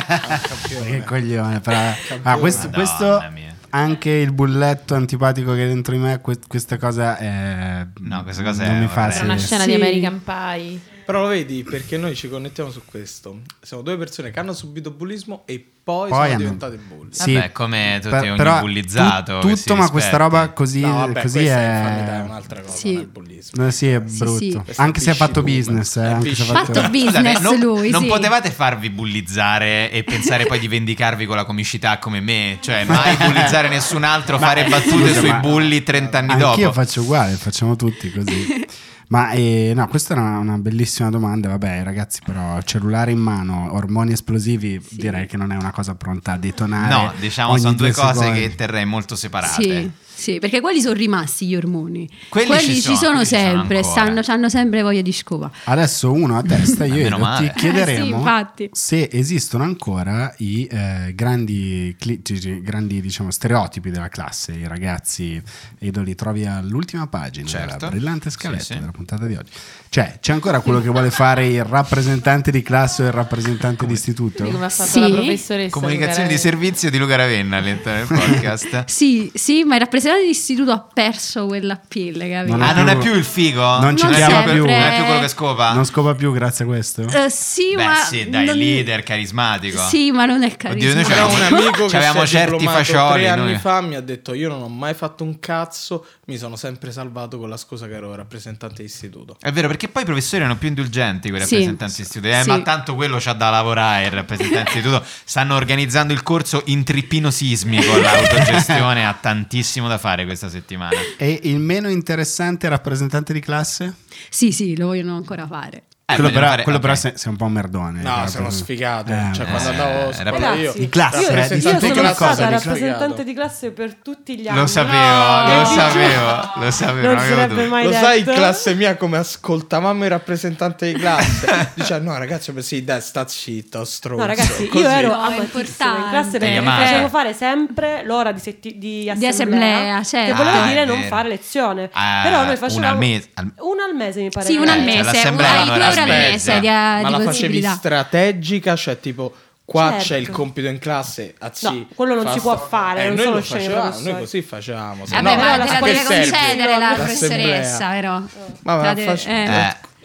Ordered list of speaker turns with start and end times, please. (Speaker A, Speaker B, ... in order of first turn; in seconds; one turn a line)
Speaker A: 0.2-1.2
Speaker B: 0.3-9.6
Speaker A: 2.0-2.8
Speaker C: 2.5-3.6
Speaker C: 8.0-9.5
Speaker D: 9.1-10.8
Speaker E: 9.5-10.1
Speaker A: 11.1-17.2
Speaker B: 16.1-22.3
Speaker C: 17.2-20.5
Speaker A: 20.8-23.6
Speaker E: 22.7-23.1
Speaker B: 23.5-26.9
Speaker E: 24.1-24.6
Speaker A: 24.7-26.9
Speaker E: 26.5-28.3
Speaker C: 26.8-36.8
Speaker B: 32.9-33.6
Speaker B: 34.4-35.5
Speaker A: 35.1-36.3
Speaker B: 36.3-48.6
Speaker E: 38.3-38.6
Speaker E: 44.9-45.3
Speaker C: 46.8-49.9
Speaker E: 49.4-55.6
Speaker C: 52.3-54.2
Speaker B: 55.7-74.6
Speaker C: 56.9-57.6
Speaker E: 57.6-58.7
Speaker C: 67.5-68.8
Speaker D: 74.4-76.5
Speaker E: 74.8-75.4
Speaker C: 75.7-78.9
Speaker E: 78.9-83.1
Speaker B: 82.4-83.2
Speaker C: 82.6-85.8
Speaker B: 83.7-85.0
Speaker E: 83.9-85.3
Speaker B: 85.7-87.2
Speaker E: 87.1-88.9
Speaker C: 87.7-90.0
Speaker E: 89.7-91.8
Speaker C: 90.7-93.7
Speaker A: 91.0-99.4
Speaker C: 99.4-111.1
Speaker E: 101.4-102.7
Speaker E: 104.5-104.8
Speaker B: 108.4-108.7
Speaker B: 111.2-114.0
Speaker E: 114.3-116.0
Speaker C: 116.1-117.0
Speaker B: 116.1-119.8
Speaker A: 118.0-123.2
Speaker C: 119.5-120.6
Speaker F: 120.3-128.7
Speaker B: 120.8-122.8
Speaker C: 124.5-127.8
Speaker A: 127.8-135.5
Speaker F: 134.2-145.8
Speaker E: 135.0-137.1
Speaker C: 136.4-137.1
Speaker E: 139.1-140.8
Speaker C: 140.2-141.2
Speaker C: 141.9-143.6
Speaker E: 144.4-147.8
Speaker C: 144.6-146.7
Speaker A: 145.4-157.9
Speaker F: 149.7-150.4
Speaker F: 151.6-154.3
Speaker C: 155.1-155.4
Speaker E: 155.1-159.7
Speaker F: 155.1-157.6
Speaker A: 158.6-159.7
Speaker C: 159.4-159.8